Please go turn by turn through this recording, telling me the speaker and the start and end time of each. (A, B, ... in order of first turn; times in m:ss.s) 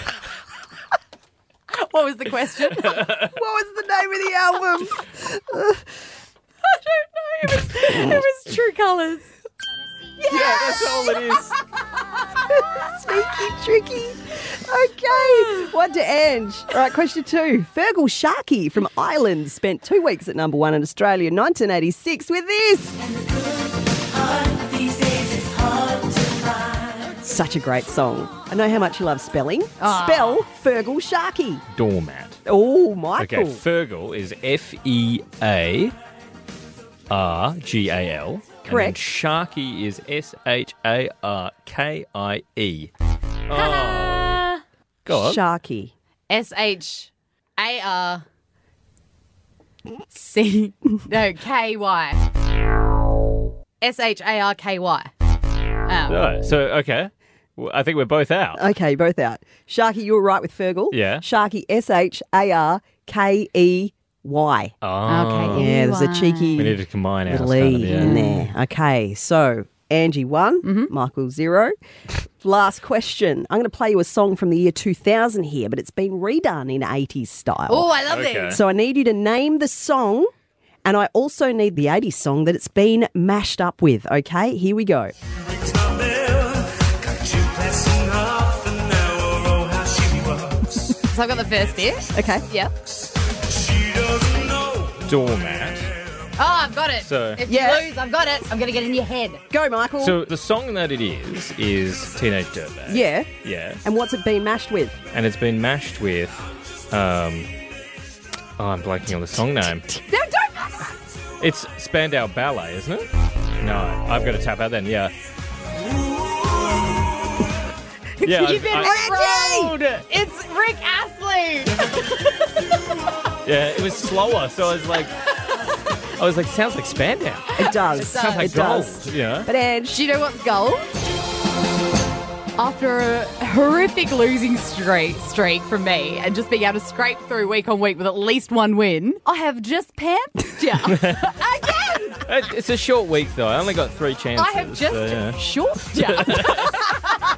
0:01.7-0:03.1 A
0:02.9-0:03.3 B
0:03.1-0:05.8 C
0:06.6-0:09.3 A
0:10.2-0:11.6 B
0:10.3-0:11.5 C
0:12.3-0:23.1 C
0:27.0-0:31.6 C
0:29.8-0:30.4 A
0:31.7-0:32.4 B
0:32.4-0:33.6 C
0:33.2-0:35.9 B
0:37.1-0:42.9 B
0:38.6-0:39.0 C
0:43.5-0:44.4 B
0:43.5-0:44.6 A
0:45.0-0:45.4 B
0:45.1-0:45.9 C
0:46.3-0:48.2 A
0:50.0-0:52.2 A
0:53.8-0:55.1 A
0:55.8-0:56.2 A
0:56.1-0:58.7 B
0:58.5-1:04.7 C
1:00.9-1:01.2 B
1:04.8-1:05.7 B
1:05.1-1:06.7 A
1:05.5-1:18.0 C
1:06.6-1:08.3 B
1:07.9-1:08.4 A
1:10.6-1:10.9 A
1:17.7-1:18.6 A
1:18.1-1:18.6 B
1:18.5-1:20.3 C
1:20.8-1:25.1 C
1:25.6-1:30.7 D
1:31.0-1:32.7 A
1:32.1-1:32.4 C
1:33.5-1:35.0 D
1:35.0-1:35.9 B
1:36.4-1:39.4 A
1:37.0-1:37.4 B
1:37.4-1:37.9 C
1:39.5-1:40.2 C
1:40.0-1:43.8 B
1:42.9-1:43.3 C
1:43.8-1:45.0 C
1:45.1-1:47.5 B
1:48.6-1:49.9 B
1:50.1-1:50.9 A
1:51.4-1:53.1 B
1:53.6-1:55.1 B
1:58.2-2:02.3 A
1:58.2-1:59.0 B
1:58.7-1:59.8 C
2:03.4-2:05.1 B
2:06.1-2:09.5 B
2:07.6-2:10.0 C
2:07.7-2:08.5 A
2:09.9-2:10.9 A
2:12.6-2:22.2 A
2:20.8-2:21.3 B
2:22.2-2:25.4 B
2:24.4-2:27.0 A
2:26.0-2:26.8 B